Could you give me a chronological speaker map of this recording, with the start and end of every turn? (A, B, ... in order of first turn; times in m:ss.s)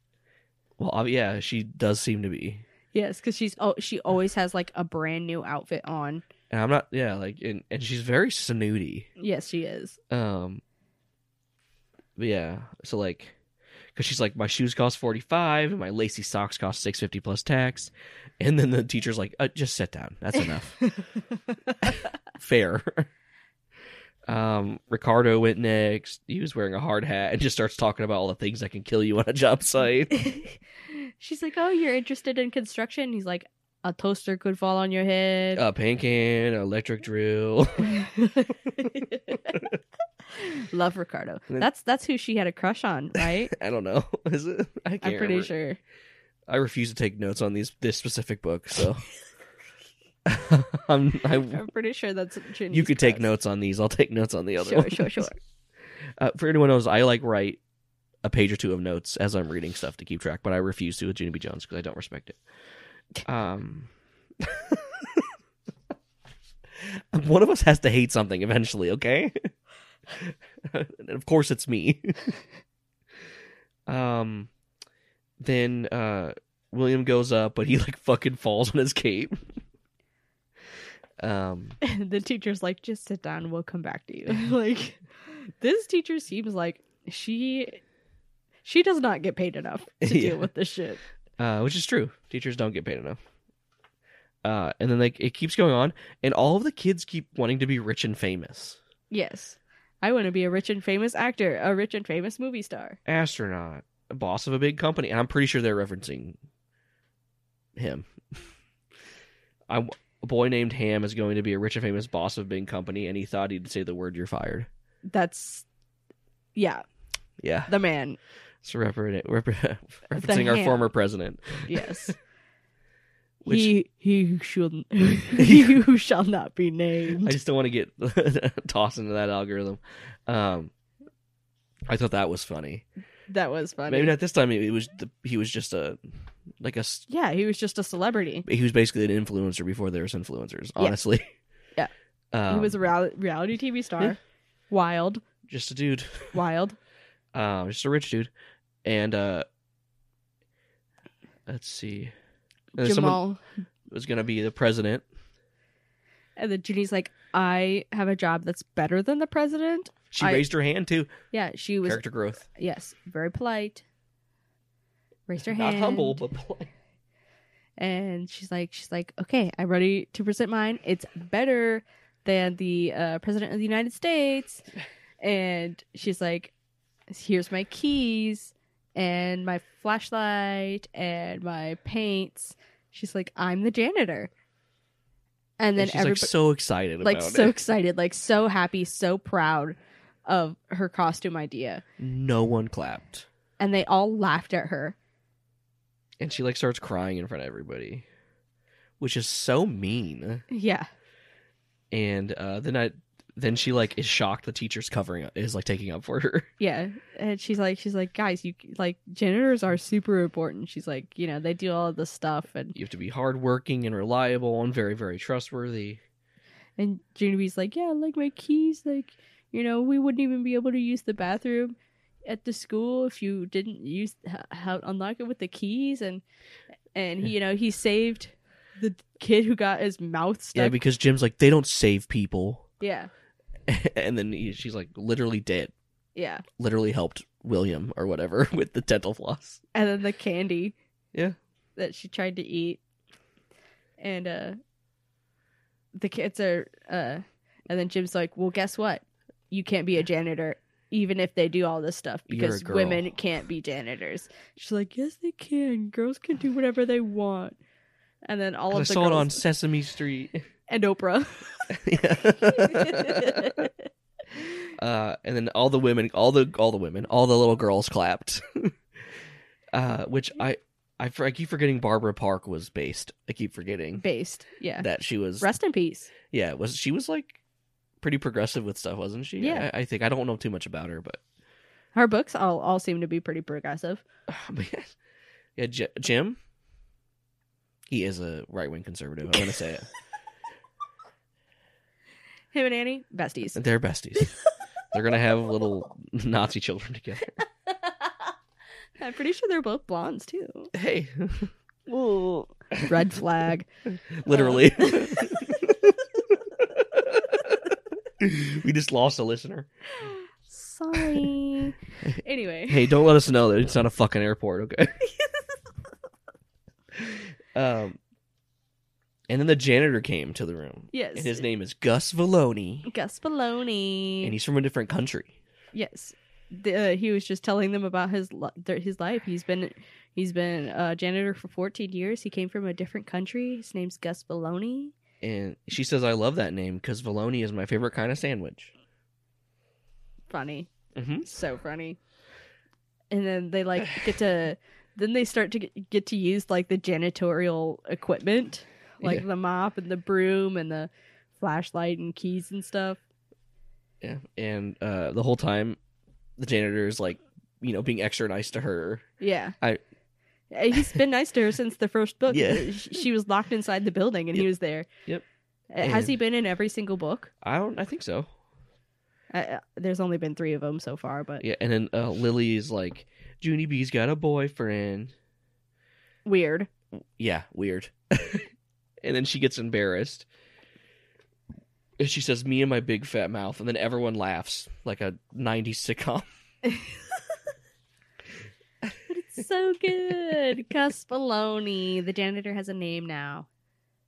0:00.8-0:02.6 A
0:02.9-0:06.2 B
0:06.5-0:09.1 A
0:09.2-0:10.0 B
0:10.1-0:10.6 A
0:12.2-0:13.4 A
0:14.0-0:20.8 A
0:20.8-0:22.0 B
0:22.4-0:23.1 A
0:24.3-0:30.1 A
0:30.1-0:35.6 B
0:35.6-0:38.0 A
0:37.9-0:39.6 B
0:40.3-0:43.5 B
0:43.5-0:45.5 A
0:45.0-0:45.8 B
0:46.5-0:49.1 A
0:50.3-0:51.6 A
0:51.4-0:53.3 B
0:52.7-0:55.3 A
0:54.6-0:55.4 B
0:56.2-0:57.6 A
0:58.2-1:02.4 A
1:03.2-1:05.3 A
1:06.8-1:09.5 A
1:10.1-1:12.4 A
1:13.9-1:14.5 A
1:15.4-1:19.4 A
1:21.2-1:21.8 A
1:21.8-1:27.8 B
1:28.6-1:31.0 B
1:30.0-1:30.5 A
1:31.4-1:33.2 A
1:34.4-1:38.8 A
1:39.1-1:43.0 B
1:43.1-1:46.4 A
1:47.8-1:48.1 A
1:49.7-1:54.7 A
1:55.1-1:55.6 B
1:56.6-1:56.8 B
1:57.4-1:57.7 A
1:57.7-1:58.2 B
1:58.6-2:02.1 A
2:00.2-2:00.9 B
2:01.7-2:02.2 B
2:03.4-2:03.7 A
2:03.4-2:07.4 B
2:05.4-2:05.8 A
2:07.2-2:10.7 A
2:11.9-2:12.8 A
2:13.3-2:14.1 B
2:13.9-2:16.0 A
2:16.6-2:17.0 A
2:17.1-2:18.5 B
2:18.5-2:21.3 A
2:22.3-2:22.8 A
2:22.5-2:24.2 B
2:24.7-2:25.2 B
2:25.5-2:26.4 A
2:26.3-2:26.8 B
2:27.3-2:28.3 A
2:28.8-2:29.4 A
2:31.5-2:32.1 A
2:32.8-2:33.2 A
2:32.8-2:33.4 B
2:33.9-2:35.0 A
2:36.4-2:40.4 B
2:40.1-2:41.1 A
2:41.3-2:42.0 B
2:41.8-2:42.4 A
2:42.6-2:43.8 B
2:45.3-2:46.2 B
2:45.4-2:46.7 A
2:47.8-2:54.6 B
2:55.2-2:56.5 B
2:57.1-3:04.3 B
3:05.6-3:06.3 B
3:05.8-3:07.6 A
3:07.0-3:11.8 B
3:12.0-3:13.3 A
3:13.6-3:15.0 B
3:16.2-3:18.1 A
3:19.0-3:20.4 A
3:20.5-3:20.9 B
3:21.9-3:26.5 A
3:26.6-3:32.8 B
3:32.7-3:36.0 A
3:36.8-3:46.2 B
3:47.0-3:50.8 B
3:50.5-3:52.7 A
3:52.8-3:53.1 B
3:53.7-3:55.7 A
3:56.2-3:56.5 B
3:56.6-3:59.6 A
3:59.8-4:00.8 B
4:01.8-4:02.8 B
4:04.0-4:04.6 B
4:06.0-4:17.6 B
4:12.3-4:13.1 A
4:18.2-4:19.4 B
4:18.7-4:20.4 A
4:20.7-4:21.8 B
4:21.7-4:23.7 A
4:22.4-4:23.9 B
4:24.8-4:28.8 A
4:29.7-4:34.0 A
4:34.0-4:34.9 B
4:34.8-4:35.5 A
4:35.4-4:36.1 B
4:36.3-4:37.4 A
4:38.0-4:41.2 A
4:39.4-4:39.7 B
4:42.0-4:44.0 B
4:44.3-4:44.9 A
4:45.6-4:46.4 A
4:47.9-4:49.9 A
4:52.5-4:53.6 B
4:53.6-4:54.3 A
4:54.9-4:57.4 A
4:59.0-5:00.7 B
5:00.7-5:01.5 A
5:01.9-5:03.7 B
5:04.1-5:07.6 A
5:04.3-5:05.5 B
5:08.2-5:09.7 A
5:10.5-5:12.9 B
5:10.9-5:11.2 A
5:12.0-5:15.0 A
5:17.0-5:18.0 A
5:19.3-5:22.9 A
5:20.9-5:21.4 B
5:22.9-5:24.4 B
5:24.2-5:25.4 A
5:25.7-5:34.9 B
5:35.2-5:38.7 A
5:40.3-5:40.7 B
5:41.0-5:41.3 A
5:41.2-5:42.0 B
5:43.1-5:53.0 B
5:43.8-5:44.1 A
5:54.0-5:55.8 A
5:56.4-5:59.1 A
5:59.2-5:59.6 B
6:00.5-6:04.9 B
6:02.3-6:02.8 A
6:05.7-6:07.3 B
6:05.8-6:06.1 A
6:07.4-6:08.3 A
6:09.3-6:11.4 B
6:11.4-6:15.1 A
6:16.2-6:16.7 B
6:17.2-6:18.5 A
6:19.0-6:20.3 A
6:22.0-6:26.3 A
6:29.1-6:33.5 B